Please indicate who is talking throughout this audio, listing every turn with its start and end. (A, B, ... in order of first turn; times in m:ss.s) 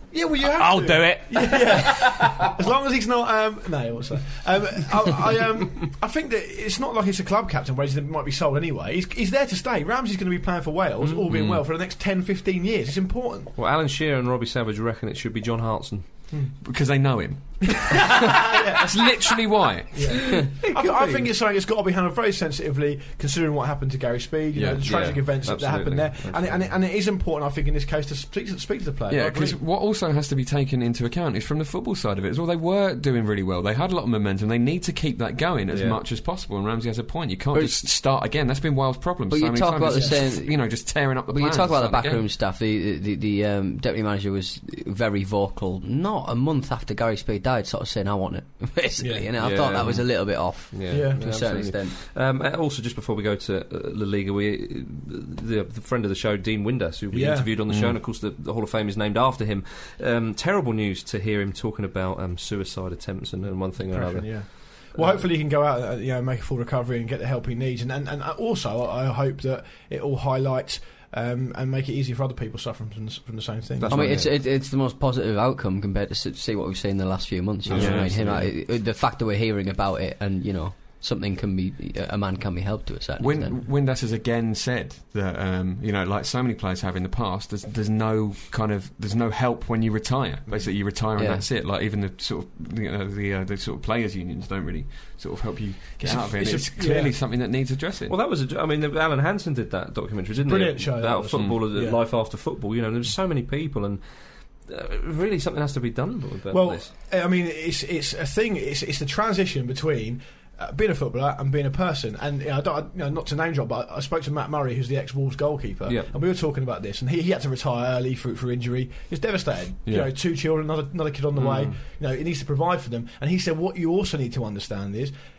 0:00.1-0:13.5 A
0:00.5-0:02.4 B
0:11.0-0:11.3 C
0:11.3-0:11.6 B
0:13.6-0:16.0 C
0:16.3-0:16.6 A
0:16.6-0:20.4 B
0:17.7-0:19.4 A
0:19.9-0:29.6 A
0:20.3-0:21.3 C
0:24.5-0:24.8 B
0:24.8-0:26.7 C
0:29.1-0:42.2 B
0:35.7-0:36.0 C
0:37.5-0:37.8 D
0:39.3-0:52.0 D
0:39.8-0:40.2 A
0:49.0-0:49.3 A
0:49.4-1:05.2 C
0:49.8-0:50.0 B
0:50.9-0:51.3 A
0:57.1-0:57.5 A
0:57.7-0:58.0 B
1:03.8-1:14.0 A
1:13.8-1:14.3 C
1:13.9-1:23.6 D
1:17.6-1:18.4 C
1:17.7-1:18.5 B
1:23.2-1:38.2 B
1:31.1-1:31.4 D
1:36.0-1:37.1 A
1:38.1-1:46.9 C
1:40.4-1:42.0 A
1:41.3-1:41.6 B
1:46.5-2:05.1 A
1:55.8-1:56.1 C
1:59.8-2:00.1 B
2:01.3-2:01.8 C